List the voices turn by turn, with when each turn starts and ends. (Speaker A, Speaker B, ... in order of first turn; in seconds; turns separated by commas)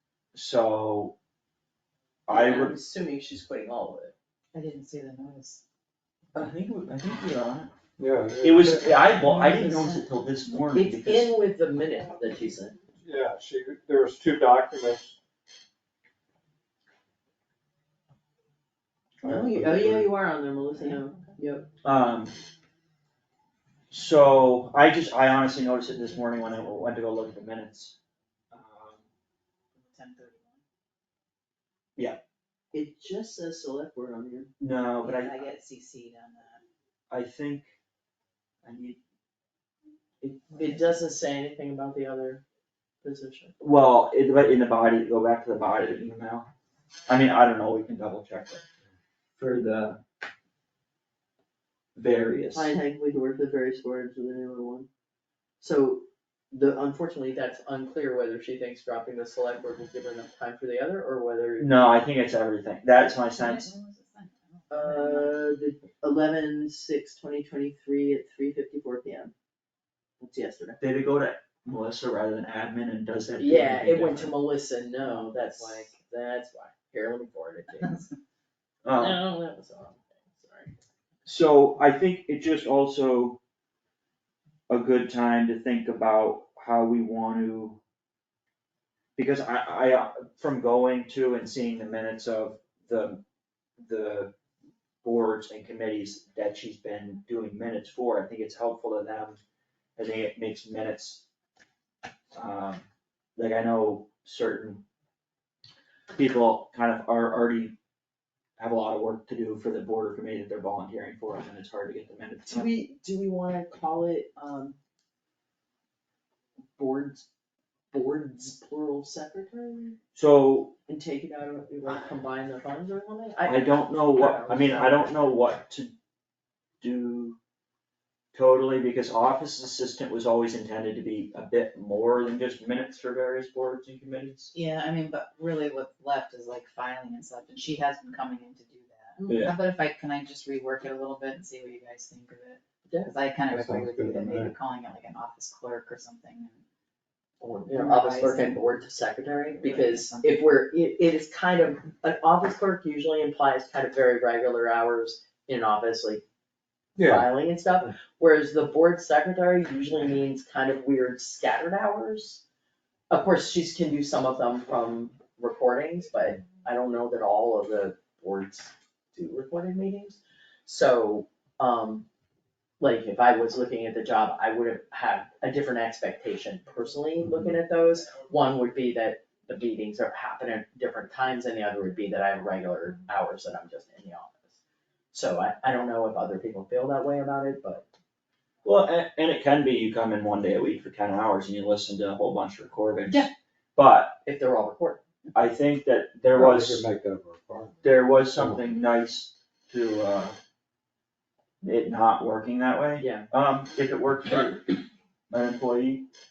Speaker A: 0.3-1.1, Speaker A: 2.3-2.8, Speaker B: 2.3-4.1, Speaker C: 4.5-5.6, Speaker A: 6.3-7.7, Speaker D: 8.0-9.1, Speaker A: 8.4-11.3, Speaker C: 9.0-10.0, Speaker B: 10.7-12.8, Speaker D: 13.0-15.2, Speaker D: 19.2-20.1, Speaker B: 19.2-21.7, Speaker A: 21.8-22.4, Speaker A: 23.9-28.0, Speaker A: 28.5-29.1, Speaker C: 29.8-30.6, Speaker B: 32.7-34.5, Speaker A: 34.6-35.5, Speaker C: 35.0-36.6, Speaker A: 37.1-37.7, Speaker A: 38.6-39.0, Speaker B: 40.2-42.4, Speaker B: 43.0-43.5, Speaker A: 43.6-46.5, Speaker A: 47.1-48.6, Speaker A: 49.4-50.0, Speaker A: 52.0-52.7, Speaker B: 52.5-54.9, Speaker B: 55.6-61.7, Speaker A: 61.6-63.7, Speaker C: 63.3-65.4, Speaker B: 64.7-69.3, Speaker B: 70.2-70.8, Speaker A: 70.8-74.3, Speaker B: 73.4-78.1, Speaker C: 75.0-76.0, Speaker A: 78.8-79.2, Speaker B: 79.0-80.7, Speaker A: 81.2-83.4, Speaker A: 84.7-87.8, Speaker A: 89.2-93.2, Speaker A: 93.8-94.3, Speaker A: 95.0-99.4, Speaker A: 100.0-101.2, Speaker A: 102.3-102.8, Speaker A: 103.4-104.8, Speaker A: 106.2-107.8, Speaker A: 108.6-112.7, Speaker B: 112.5-114.8, Speaker B: 116.8-117.3, Speaker B: 117.9-120.0, Speaker A: 120.2-120.8, Speaker B: 120.9-125.3, Speaker A: 123.5-125.9, Speaker A: 126.8-127.4, Speaker A: 128.3-134.5, Speaker C: 134.5-146.6, Speaker B: 139.2-139.4, Speaker A: 139.3-139.5, Speaker D: 143.5-144.5, Speaker B: 147.4-156.2, Speaker C: 147.7-148.7, Speaker C: 149.6-150.3, Speaker D: 157.0-157.3, Speaker B: 157.0-162.4, Speaker B: 163.1-172.1, Speaker B: 172.8-184.6, Speaker B: 185.1-187.8, Speaker A: 188.6-194.2, Speaker B: 194.2-195.0, Speaker A: 195.3-196.9, Speaker D: 196.3-197.8, Speaker A: 197.8-200.4, Speaker D: 198.3-198.6, Speaker A: 201.6-206.1, Speaker B: 203.0-203.3